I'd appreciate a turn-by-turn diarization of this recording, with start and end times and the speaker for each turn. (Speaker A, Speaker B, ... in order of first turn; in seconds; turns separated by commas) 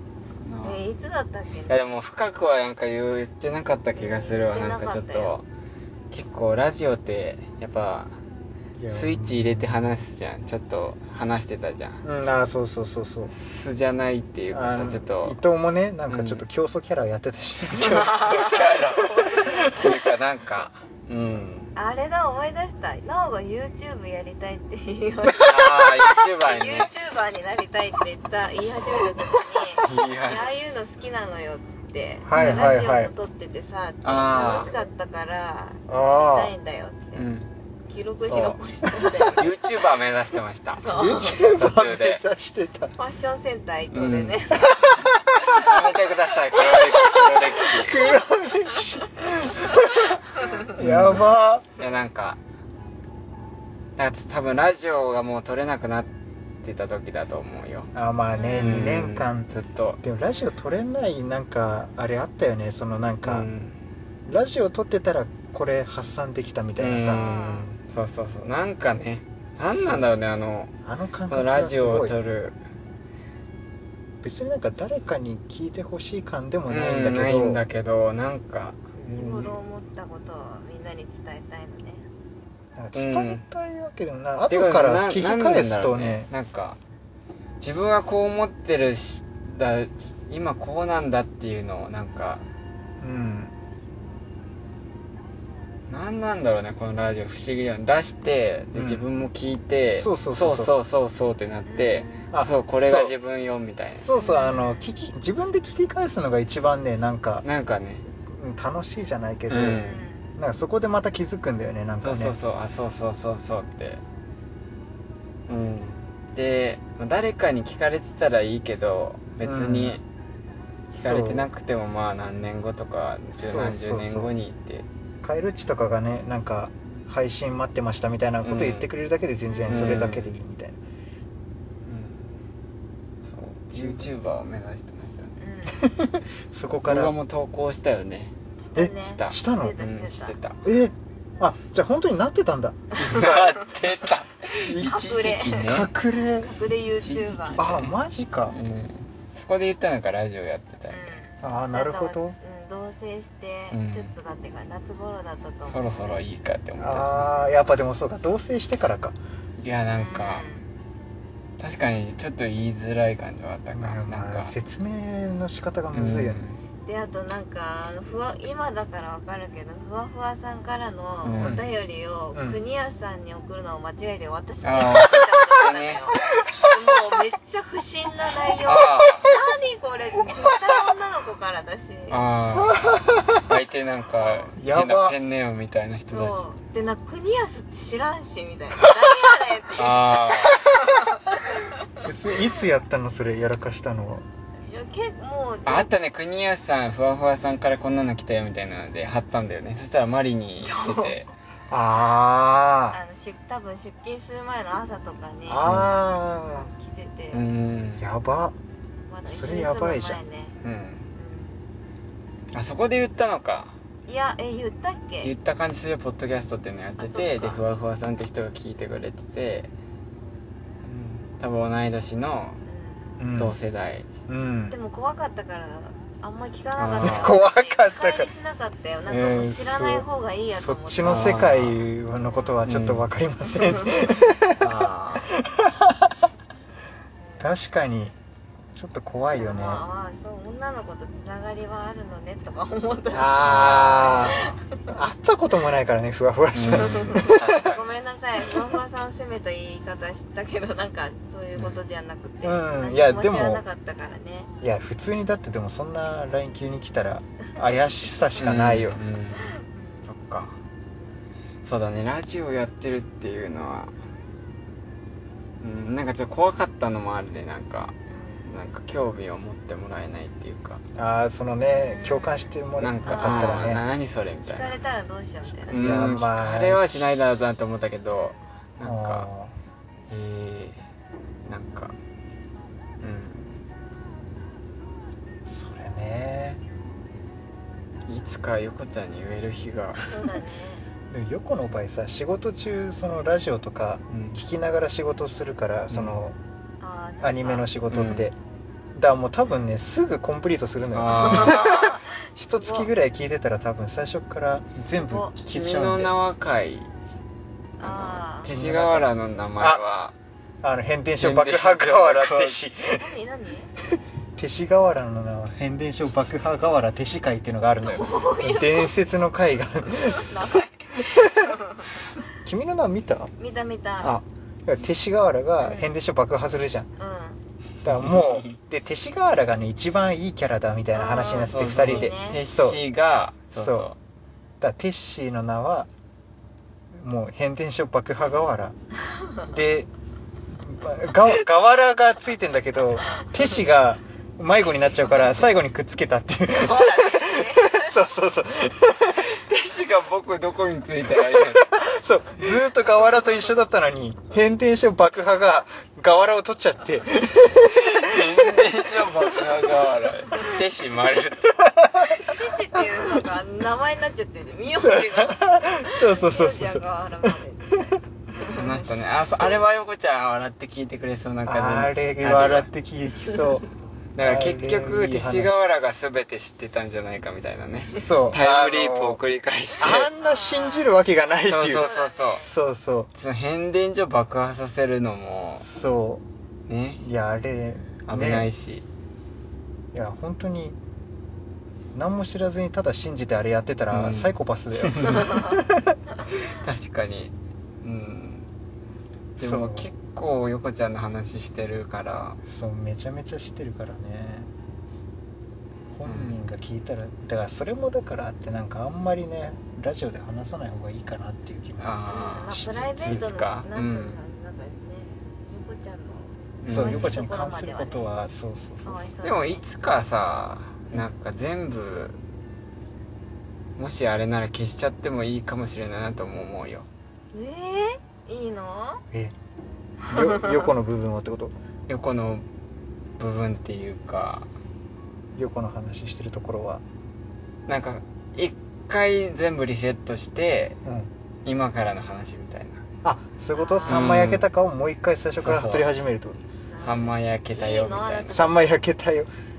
Speaker A: 0.4-0.9, Speaker B: 0.6-1.8, Speaker A: 1.7-5.4, Speaker B: 4.0-5.3, Speaker A: 6.1-8.2, Speaker C: 8.8-9.9, Speaker A: 8.9-12.0, Speaker C: 12.0-13.3, Speaker A: 13.3-15.4, Speaker C: 14.5-19.9, Speaker A: 16.1-16.5, Speaker A: 17.8-21.7, Speaker B: 18.2-19.9, Speaker B: 21.8-37.2, Speaker A: 25.4-26.9, Speaker A: 29.8-30.5, Speaker C: 32.2-33.1, Speaker A: 32.3-32.8, Speaker A: 34.0-34.7, Speaker C: 35.9-36.5, Speaker A: 37.1-37.5, Speaker B: 37.9-39.5, Speaker A: 38.3-38.6, Speaker C: 39.0-39.4, Speaker A: 39.4-40.8, Speaker B: 40.8-41.4, Speaker C: 40.8-42.9, Speaker A: 41.5-42.2, Speaker B: 43.0-44.9, Speaker A: 43.9-44.4, Speaker C: 44.6-45.5, Speaker A: 45.4-48.1, Speaker C: 46.6-51.7, Speaker A: 50.8-52.4, Speaker A: 54.0-56.1, Speaker A: 56.6-57.9, Speaker C: 57.9-63.5, Speaker B: 58.3-58.9, Speaker A: 58.6-60.0, Speaker A: 63.2-63.8, Speaker C: 64.3-67.2, Speaker A: 66.8-70.7, Speaker B: 67.0-67.7, Speaker C: 69.6-70.1, Speaker C: 70.8-72.2, Speaker A: 71.3-72.6, Speaker C: 74.2-77.6, Speaker A: 76.7-78.8, Speaker C: 79.0-79.6, Speaker B: 79.1-82.0, Speaker C: 82.8-86.3, Speaker A: 82.9-83.4, Speaker A: 84.5-86.8, Speaker A: 87.6-92.4, Speaker C: 93.0-93.5, Speaker A: 95.9-104.1, Speaker C: 98.7-99.0, Speaker C: 100.0-100.7, Speaker B: 101.7-102.3, Speaker C: 102.3-103.1, Speaker C: 104.0-107.5, Speaker B: 104.1-104.9, Speaker A: 107.4-108.0, Speaker C: 108.2-112.4, Speaker A: 109.5-110.1, Speaker B: 109.8-110.3, Speaker A: 112.0-114.0, Speaker A: 115.5-120.0, Speaker C: 119.4-120.0, Speaker C: 120.9-121.5, Speaker A: 121.0-124.9, Speaker C: 123.4-124.3, Speaker C: 125.2-130.8, Speaker A: 128.4-128.9, Speaker B: 129.5-130.0, Speaker A: 129.7-130.3, Speaker A: 131.8-132.3, Speaker A: 133.2-135.4, Speaker C: 133.8-134.1, Speaker B: 135.4-135.8, Speaker C: 135.7-137.2, Speaker A: 136.9-138.3, Speaker B: 138.6-140.4, Speaker C: 138.8-139.8, Speaker A: 139.0-140.6, Speaker C: 140.6-143.7, Speaker A: 143.0-145.9, Speaker C: 144.6-146.5, Speaker B: 144.8-145.8, Speaker B: 146.4-147.6, Speaker A: 147.0-147.9, Speaker C: 147.6-148.6, Speaker A: 148.5-151.2, Speaker B: 150.9-156.2, Speaker C: 151.4-152.3, Speaker A: 153.7-154.1, Speaker A: 155.7-157.3, Speaker C: 156.8-159.2, Speaker A: 159.6-160.5, Speaker B: 159.9-160.7, Speaker A: 161.6-164.5, Speaker C: 163.7-166.4, Speaker A: 165.9-166.6, Speaker B: 166.8-182.2, Speaker A: 171.2-171.6, Speaker C: 171.4-171.7, Speaker C: 172.3-172.6, Speaker A: 174.6-176.1, Speaker A: 178.6-179.3, Speaker A: 182.1-186.4, Speaker C: 182.6-183.4, Speaker B: 184.2-184.5, Speaker C: 184.6-185.2, Speaker B: 186.1-190.2, Speaker A: 189.8-190.6, Speaker B: 190.8-191.7, Speaker C: 192.0-194.3, Speaker B: 194.7-195.9, Speaker A: 195.7-201.3, Speaker B: 200.6-201.2, Speaker C: 201.7-203.0, Speaker B: 202.9-205.7, Speaker C: 205.4-206.7, Speaker A: 205.6-205.9, Speaker B: 206.4-207.4, Speaker A: 207.3-208.1, Speaker C: 208.0-208.6, Speaker B: 209.1-210.6, Speaker C: 209.3-210.2, Speaker A: 210.6-211.1, Speaker B: 211.2-211.5, Speaker A: 212.5-213.8, Speaker B: 214.1-215.3, Speaker A: 215.2-219.7, Speaker B: 217.0-217.7, Speaker A: 220.8-222.6, Speaker B: 222.7-223.2, Speaker C: 223.2-223.6, Speaker A: 223.3-224.1, Speaker C: 224.3-224.8, Speaker B: 224.7-231.3, Speaker A: 226.8-227.3, Speaker C: 227.0-228.3, Speaker C: 229.1-236.1, Speaker A: 231.0-231.8, Speaker B: 232.2-232.6, Speaker A: 232.7-233.1, Speaker B: 233.5-234.0, Speaker A: 234.6-235.3, Speaker B: 237.2-237.5, Speaker C: 237.4-238.2, Speaker C: 238.7-239.8, Speaker B: 239.3-244.7, Speaker C: 243.1-247.5, Speaker A: 243.4-244.5, Speaker A: 246.6-247.8, Speaker B: 246.8-254.5, Speaker A: 251.6-251.8, Speaker C: 252.4-253.6, Speaker C: 254.6-259.0, Speaker A: 258.4-260.6, Speaker B: 259.4-260.1, Speaker A: 261.6-263.9, Speaker A: 265.6-270.8, Speaker B: 268.1-268.5, Speaker C: 270.9-273.8, Speaker B: 271.7-273.8, Speaker A: 272.8-274.8, Speaker B: 274.4-275.8, Speaker A: 275.7-279.3, Speaker C: 275.7-277.1, Speaker B: 278.1-278.4, Speaker C: 278.8-279.6, Speaker A: 280.1-280.8, Speaker A: 281.4-281.9, Speaker A: 283.0-283.6, Speaker C: 285.4-286.6, Speaker A: 288.1-290.1, Speaker B: 290.1-290.8, Speaker C: 291.1-296.4, Speaker A: 294.1-294.4, Speaker A: 295.9-296.2, Speaker B: 296.8-297.7, Speaker C: 297.2-298.3, Speaker A: 297.9-298.3, Speaker C: 298.9-306.1, Speaker A: 300.9-301.8, Speaker B: 301.1-302.9, Speaker B: 305.0-305.3, Speaker A: 305.5-306.9, Speaker B: 307.8-308.5, Speaker A: 307.8-310.1, Speaker C: 308.5-309.1, Speaker C: 310.6-313.2, Speaker A: 311.2-312.6, Speaker B: 312.9-313.7, Speaker C: 314.4-320.5, Speaker B: 317.9-318.9, Speaker B: 319.9-321.9, Speaker C: 321.1-321.6, Speaker C: 322.2-323.3, Speaker B: 323.4-324.2, Speaker C: 324.0-326.9, Speaker B: 325.6-325.9, Speaker B: 327.0-327.4, Speaker C: 327.8-332.8, Speaker A: 328.0-328.5, Speaker B: 330.9-332.4, Speaker A: 331.2-334.0, Speaker C: 333.6-333.9, Speaker C: 334.6-335.9, Speaker C: 336.9-338.8, Speaker C: 339.4-339.9, Speaker C: 340.5-349.3, Speaker B: 346.6-347.9, Speaker A: 349.2-351.7, Speaker C: 351.6-357.9, Speaker A: 357.7-361.8, Speaker C: 361.8-362.3, Speaker B: 362.2-368.9, Speaker C: 364.8-367.9, Speaker A: 368.4-372.7, Speaker C: 371.4-373.7, Speaker A: 374.1-380.1, Speaker C: 374.2-375.6, Speaker C: 377.9-379.2, Speaker C: 379.8-383.1, Speaker B: 380.2-381.0, Speaker A: 381.5-382.5, Speaker B: 381.7-382.5, Speaker A: 383.1-385.7, Speaker C: 385.6-386.2, Speaker A: 386.7-387.0, Speaker C: 387.0-388.5, Speaker A: 388.1-388.8, Speaker C: 389.9-390.8, Speaker C: 391.9-395.9, Speaker A: 393.9-395.4, Speaker A: 396.3-398.5, Speaker A: 399.4-402.4, Speaker C: 399.4-399.9, Speaker C: 402.4-404.5, Speaker C: 405.9-413.2, Speaker A: 406.1-406.4, Speaker A: 411.8-414.2, Speaker B: 412.1-418.1, Speaker A: 416.6-417.2, Speaker C: 416.7-419.0, Speaker B: 418.8-419.6, Speaker A: 419.2-422.2, Speaker A: 423.8-426.9, Speaker B: 427.3-429.0, Speaker C: 430.1-431.5, Speaker B: 430.1-430.7, Speaker A: 431.9-432.4, Speaker A: 433.2-434.5, Speaker C: 435.3-436.8, Speaker A: 437.7-440.8, Speaker C: 440.8-441.1, Speaker A: 441.4-442.8, Speaker C: 443.0-446.4, Speaker B: 443.6-444.1, Speaker A: 443.9-444.5, Speaker A: 445.4-445.9, Speaker B: 446.7-448.6, Speaker A: 446.8-448.4, Speaker C: 448.3-449.3